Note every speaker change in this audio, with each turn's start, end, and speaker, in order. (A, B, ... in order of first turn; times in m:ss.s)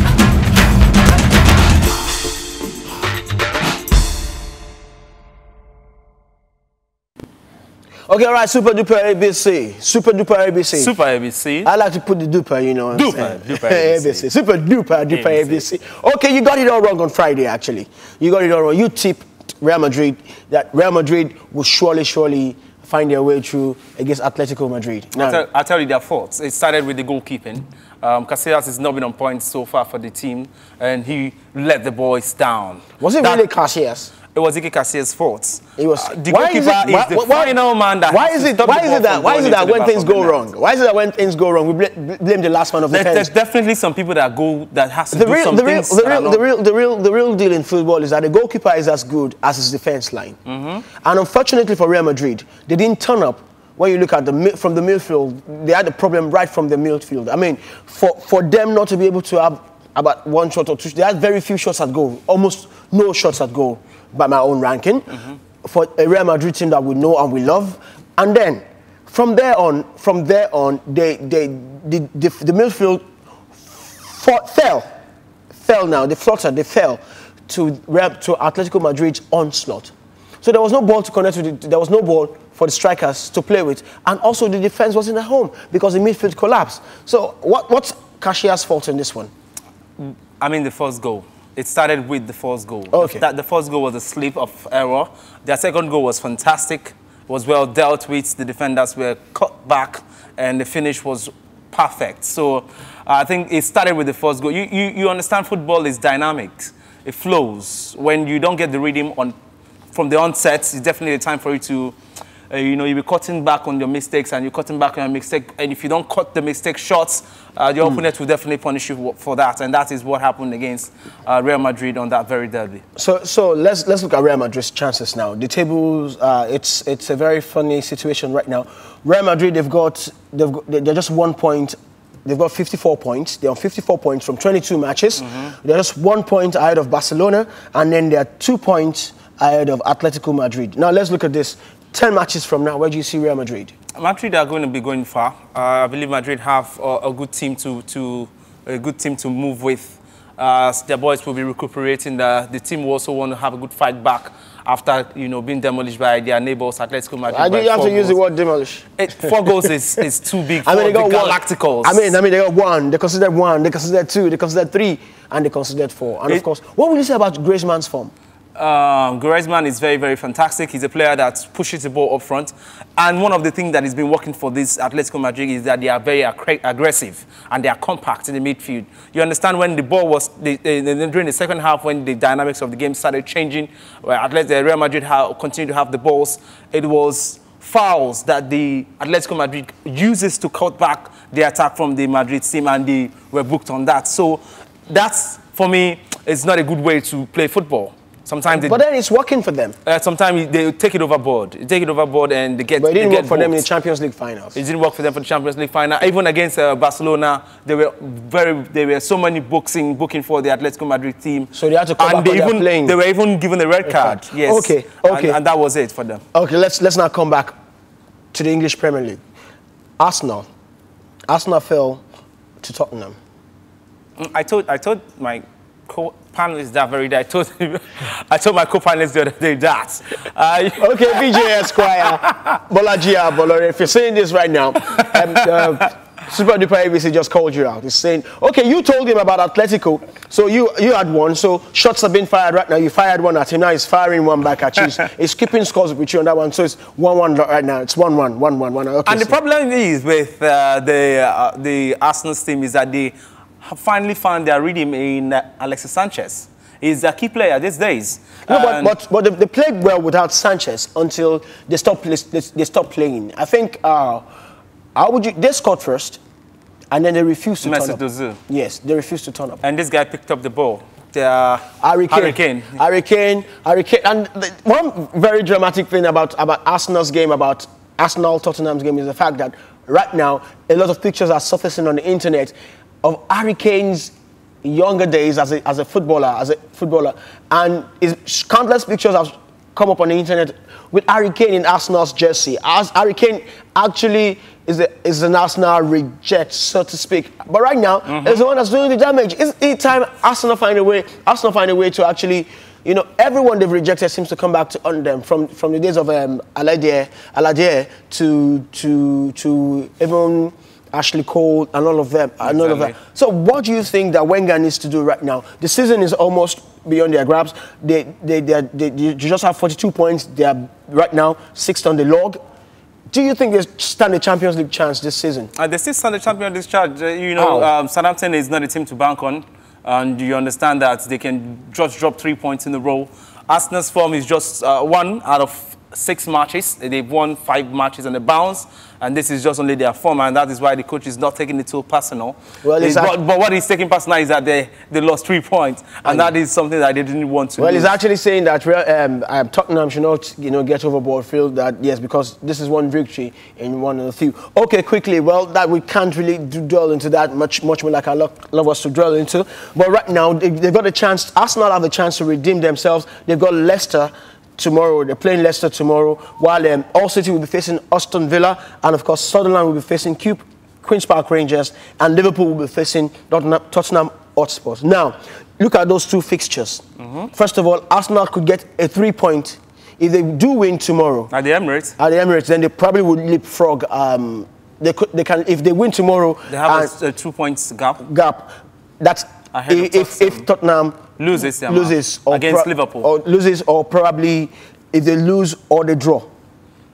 0:08.1-0:10.9 A
0:10.7-0:11.7 B
0:11.6-0:25.4 A
0:12.9-0:14.2 B
0:15.1-0:15.6 B
0:25.2-0:33.4 B
0:33.0-0:34.1 A
0:34.3-0:40.4 B
0:35.8-0:37.5 A
0:38.1-0:43.3 A
0:42.9-0:46.4 B
0:45.1-0:50.4 A
0:50.4-0:50.8 B
0:51.0-1:13.0 A
1:13.6-1:14.9 A
1:15.6-1:29.3 A
1:30.0-1:49.3 B
1:32.9-1:33.2 A
1:49.9-1:51.9 B
1:52.5-2:02.8 B
2:03.0-2:23.7 A
2:15.2-2:15.5 B
2:24.0-2:38.2 B
2:37.3-2:39.3 A
2:39.0-2:42.1 B
2:40.6-2:48.1 A
2:48.6-3:18.8 B
3:18.5-3:19.8 A
3:19.8-3:23.6 B
3:22.8-3:24.6 A
3:24.5-3:36.2 B
3:31.5-3:32.9 A
3:33.8-3:35.4 A
3:36.3-3:37.5 A
3:38.3-3:39.2 A
3:40.0-3:40.5 A
3:41.3-3:42.0 A
3:42.6-3:43.2 A
3:44.2-3:52.5 B
3:50.8-4:09.4 A
4:09.0-4:18.9 B
4:18.5-4:24.2 A
4:24.9-4:26.2 A
4:26.9-4:29.6 A
4:27.6-4:28.4 B
4:29.6-4:32.8 B
4:31.8-5:22.4 A
4:58.1-4:58.4 B
5:12.4-5:12.9 B
5:23.1-5:25.5 A
5:25.6-5:48.0 B
5:27.4-5:27.7 A
5:42.6-5:43.1 A
5:46.0-5:46.3 A
5:47.6-6:16.8 A
6:17.0-6:17.3 B
6:17.3-6:21.3 A
6:21.3-6:21.9 B
6:22.0-6:26.9 A
6:26.5-6:28.0 B
6:28.0-6:31.0 A
6:29.5-6:30.4 B
6:31.2-6:33.1 B
6:31.6-6:36.3 A